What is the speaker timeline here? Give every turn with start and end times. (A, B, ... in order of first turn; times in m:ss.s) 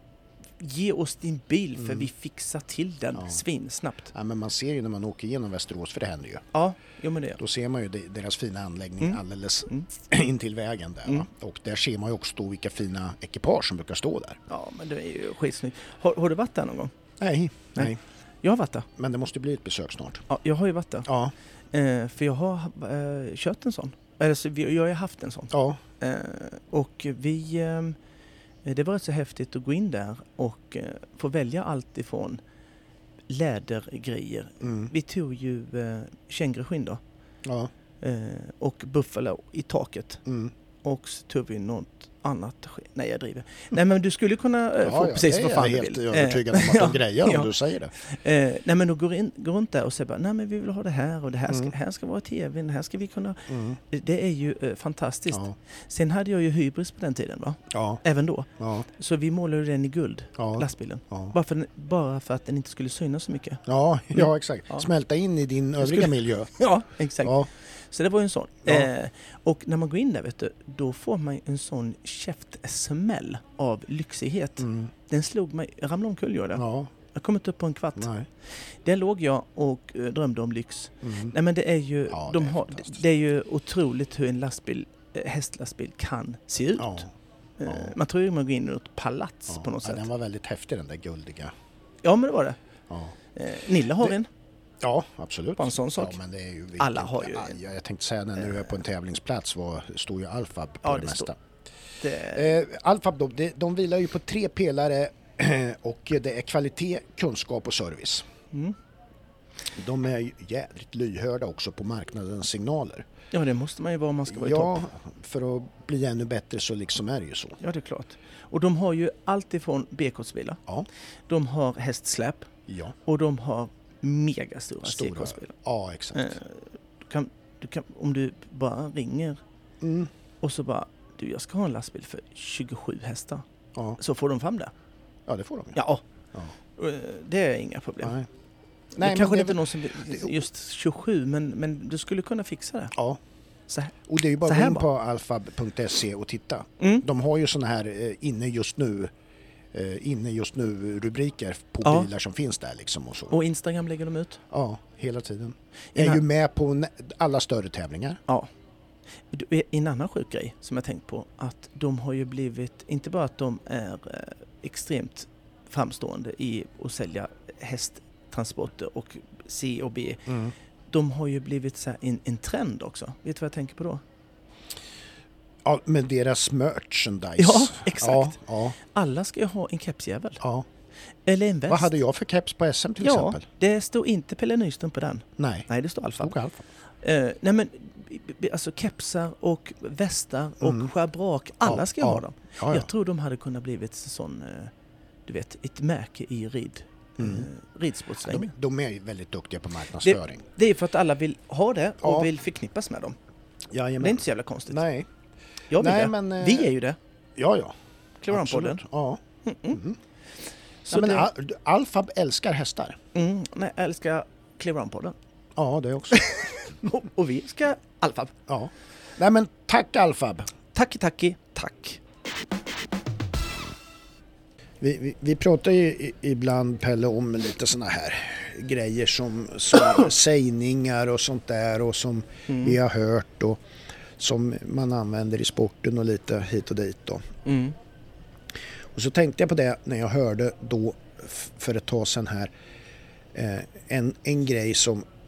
0:00.6-0:04.1 A
0:01.8-0:02.1 B
0:03.1-0:03.4 B
0:04.1-0:06.4 B
0:06.5-0:07.4 A
0:07.4-0:14.4 B
0:09.0-0:09.9 A
0:14.5-0:16.9 A
0:17.2-0:18.0 B
0:17.7-0:18.9 A
0:19.0-0:20.2 B
0:20.3-0:21.1 A
0:21.1-0:21.3 B
0:21.7-0:28.0 A
0:25.5-0:25.8 B
0:28.6-0:32.4 A
0:33.3-0:37.0 A
0:34.6-0:34.9 B
0:37.4-0:37.7 B
0:38.0-0:40.2 A
0:40.2-0:40.5 B
0:40.8-1:03.6 A
0:44.8-0:47.9 B
0:53.5-0:53.8 B
0:57.7-0:58.0 B
0:58.6-0:58.8 B
1:00.4-1:01.3 B
1:03.6-1:06.5 B
1:04.1-1:04.9 A
1:05.8-1:18.1 A
1:07.2-1:07.5 B
1:14.6-1:14.9 B
1:16.6-1:16.9 B
1:18.0-1:18.2 B
1:18.8-1:27.0 A
1:21.0-1:21.3 B
1:22.1-1:23.0 B
1:26.8-1:27.1 B
1:27.6-1:30.1 A
1:27.6-1:27.9 B
1:29.5-1:31.5 B
1:32.0-1:32.6 A
1:33.3-1:34.3 A
1:34.8-1:41.4 B
1:35.6-1:36.2 A
1:36.8-1:37.6 A
1:40.8-1:41.3 A
1:42.0-1:42.5 A
1:42.3-1:48.3 B
1:49.7-1:53.0 B
1:53.3-1:54.8 A
1:54.3-1:57.6 B
1:57.6-2:00.6 A
2:01.3-2:02.5 A
2:02.7-2:02.9 B
2:03.0-2:05.5 A
2:04.8-2:06.4 B
2:06.1-2:09.4 A
2:09.8-2:10.1 B
2:10.4-2:13.4 A
2:14.0-2:14.7 A
2:15.3-2:15.8 B
2:15.7-2:16.0 A
2:16.7-2:18.2 A
2:18.0-2:18.3 B
2:19.0-2:22.9 A
2:19.0-2:20.3 B
2:22.9-2:23.2 B
2:23.7-2:24.8 A
2:24.1-2:29.1 B
2:26.8-2:27.0 A
2:29.7-2:33.4 B
2:33.3-2:34.4 A
2:34.5-2:38.2 B
2:35.9-2:36.2 A
2:39.3-2:50.3 A
2:50.3-2:50.5 B
2:50.9-2:54.0 A
2:55.6-2:58.8 B
2:57.4-3:00.4 A
3:00.4-3:00.6 B
3:01.2-3:01.9 A
3:01.7-3:03.4 B
3:03.0-3:06.3 A
3:05.4-3:05.7 B
3:06.2-3:06.6 B
3:07.0-3:14.7 A
3:10.6-3:10.9 B
3:11.6-3:12.9 B
3:15.3-3:18.5 A
3:17.2-3:17.5 B
3:18.2-3:20.4 B
3:20.0-3:23.2 A
3:22.0-3:22.3 B
3:23.7-3:25.1 B
3:24.0-3:24.8 A
3:25.7-3:27.0 A
3:25.8-3:26.7 B
3:27.4-3:27.7 B
3:28.2-3:28.8 A
3:28.3-3:29.2 B
3:29.4-3:29.8 A
3:29.7-3:30.0 B
3:30.9-3:31.3 A
3:30.9-3:33.0 B
3:33.1-3:35.1 A
3:35.6-3:36.3 B
3:36.1-3:38.3 A
3:38.5-3:40.5 B
3:40.7-3:42.0 A
3:44.8-3:53.6 B
3:52.5-3:52.8 A
3:54.2-3:57.2 B
3:57.4-3:57.7 A
3:58.9-4:02.5 B
4:03.3-4:05.0 B